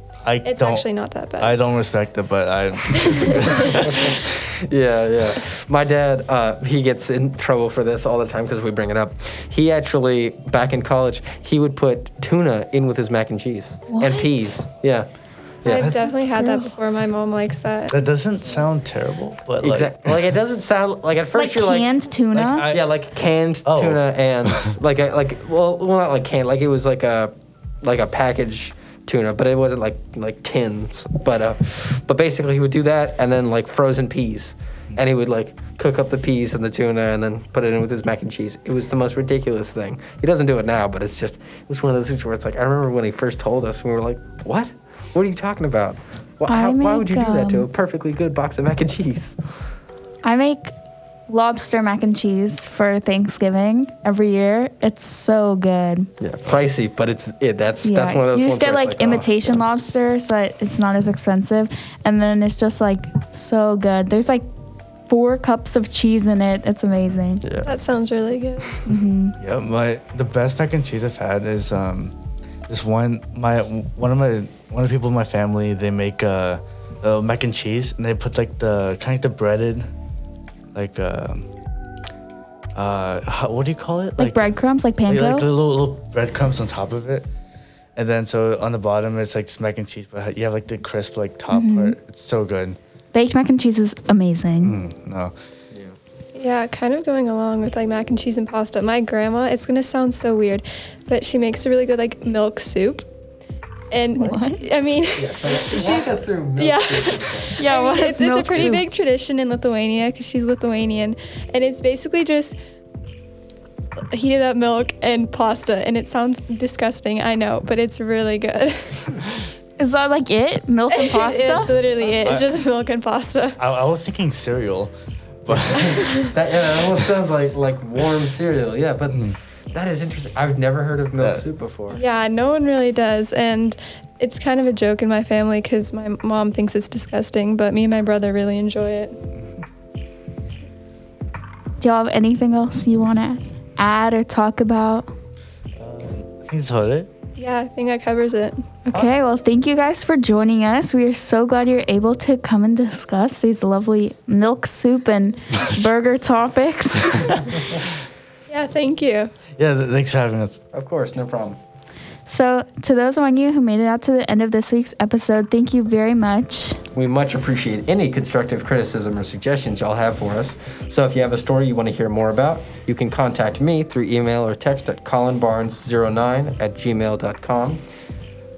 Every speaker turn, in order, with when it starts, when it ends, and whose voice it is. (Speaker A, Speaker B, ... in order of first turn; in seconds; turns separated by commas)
Speaker A: 0.2-0.9, Speaker B: 0.4-1.6, Speaker A: 1.4-4.2, Speaker C: 3.8-15.1, Speaker D: 13.9-14.6, Speaker C: 15.6-15.9, Speaker B: 15.7-17.9, Speaker D: 16.2-16.7, Speaker A: 17.9-20.2, Speaker C: 19.6-21.9, Speaker D: 21.4-22.7, Speaker A: 22.3-22.9, Speaker C: 22.7-49.4, Speaker A: 23.6-24.8, Speaker D: 46.5-47.7, Speaker D: 50.2-50.7, Speaker D: 51.3-56.1, Speaker C: 56.2-59.6, Speaker D: 57.8-64.5, Speaker D: 65.1-67.4, Speaker C: 67.4-67.7, Speaker B: 67.6-68.9, Speaker D: 68.9-69.4, Speaker A: 69.4-72.1, Speaker A: 72.7-79.9, Speaker A: 80.8-81.5, Speaker A: 82.8-84.5, Speaker D: 84.2-85.5, Speaker A: 85.1-87.3, Speaker A: 88.0-92.8, Speaker D: 91.5-92.0, Speaker D: 93.1-94.8, Speaker A: 94.6-95.3, Speaker C: 95.7-96.0, Speaker B: 96.3-103.1, Speaker B: 103.9-112.6, Speaker D: 104.2-104.8, Speaker C: 105.2-107.6, Speaker D: 107.6-108.8, Speaker B: 114.1-119.1, Speaker D: 119.8-121.7, Speaker B: 120.9-123.6, Speaker A: 123.6-124.9, Speaker A: 125.4-126.0, Speaker C: 125.5-129.2, Speaker A: 129.1-129.4, Speaker C: 129.7-132.0, Speaker A: 131.2-131.4, Speaker B: 131.9-139.2, Speaker D: 141.8-145.1, Speaker A: 145.8-147.1, Speaker B: 147.4-149.0, Speaker D: 148.9-157.5, Speaker A: 155.5-155.9, Speaker B: 158.5-159.3, Speaker A: 159.6-160.6, Speaker C: 160.7-161.6, Speaker D: 162.3-166.8, Speaker C: 166.9-177.8